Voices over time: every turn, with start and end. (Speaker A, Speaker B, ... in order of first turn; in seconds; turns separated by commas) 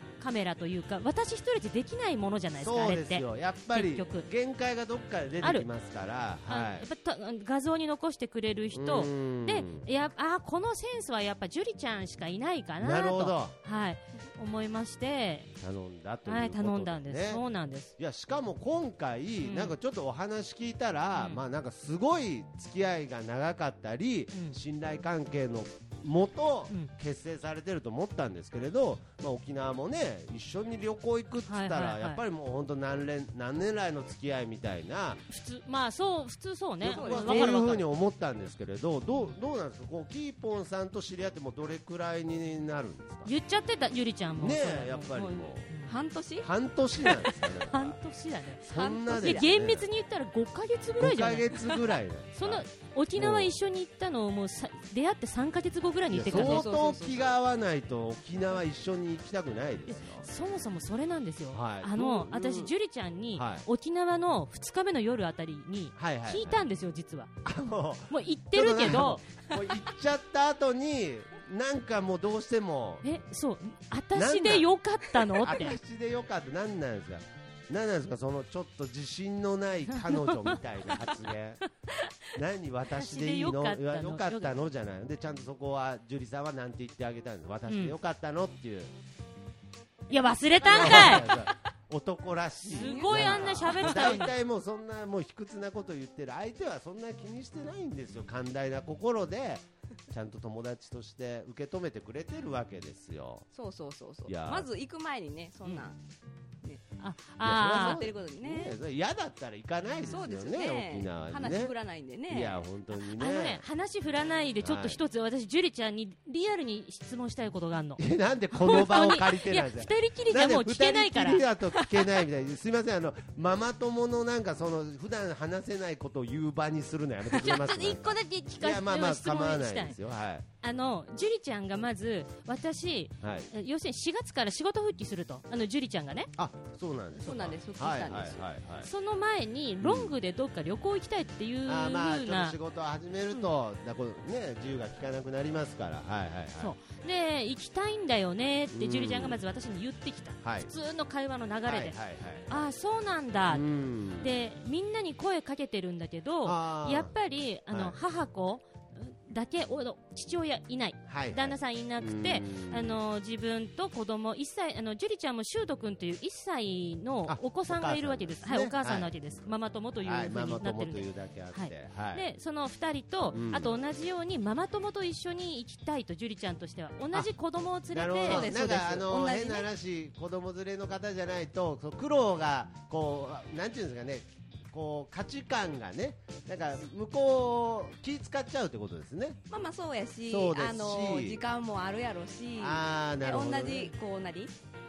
Speaker A: 0.2-4.3, Speaker B: 2.6-6.8, Speaker A: 6.5-15.5, Speaker B: 8.7-9.8, Speaker B: 12.8-13.5, Speaker B: 15.6-17.4, Speaker A: 16.2-17.9, Speaker B: 18.0-35.2, Speaker A: 19.4-19.7, Speaker A: 21.1-21.4, Speaker A: 31.5-32.2, Speaker A: 35.3-37.9, Speaker B: 36.8-43.3, Speaker C: 36.8-37.6, Speaker A: 43.2-45.9, Speaker B: 44.4-45.6, Speaker C: 45.9-46.5, Speaker B: 46.4-48.0, Speaker A: 47.6-51.5, Speaker B: 48.6-49.9, Speaker C: 48.7-49.5, Speaker B: 51.0-53.6, Speaker A: 52.4-56.7, Speaker B: 56.1-60.2, Speaker C: 56.2-57.4, Speaker A: 59.9-67.3, Speaker B: 61.5-62.7, Speaker B: 63.3-63.6, Speaker B: 66.0-66.7, Speaker B: 67.4-73.0, Speaker A: 68.1-69.2, Speaker A: 73.0-75.8, Speaker B: 74.1-74.7, Speaker B: 75.3-81.6, Speaker A: 79.9-80.6, Speaker A: 81.9-82.1, Speaker B: 82.3-88.9, Speaker A: 82.9-84.5, Speaker A: 87.7-87.9, Speaker A: 90.1-91.3, Speaker B: 90.6-103.4, Speaker C: 90.8-91.5, Speaker A: 92.7-94.3, Speaker C: 92.7-94.2, Speaker C: 103.5-106.0, Speaker B: 104.3-104.7, Speaker A: 107.0-108.0, Speaker B: 107.4-111.7, Speaker C: 107.7-108.8, Speaker C: 110.1-112.6, Speaker B: 112.3-113.6, Speaker A: 112.9-118.0, Speaker B: 114.6-115.0, Speaker B: 118.0-130.4, Speaker A: 118.5-121.5, Speaker C: 121.7-122.2, Speaker A: 127.3-129.9, Speaker A: 130.6-136.3, Speaker B: 133.2-133.5, Speaker B: 136.3-138.9, Speaker C: 137.2-138.4, Speaker A: 138.8-142.6, Speaker B: 139.8-140.1, Speaker B: 141.7-146.7, Speaker A: 146.6-152.0, Speaker B: 148.7-149.4, Speaker B: 150.4-150.7, Speaker B: 151.7-152.6, Speaker A: 152.5-153.6, Speaker B: 153.5-154.3, Speaker A: 154.2-178.5, Speaker B: 156.4-157.1, Speaker B: 157.7-157.9, Speaker B: 161.1-163.0, Speaker B: 167.3-169.5, Speaker B: 170.0-172.2, Speaker B: 173.3-173.7, Speaker B: 177.9-189.4, Speaker C: 178.2-179.7, Speaker C: 189.5-194.5, Speaker B: 190.3-191.4, Speaker B: 192.6-193.9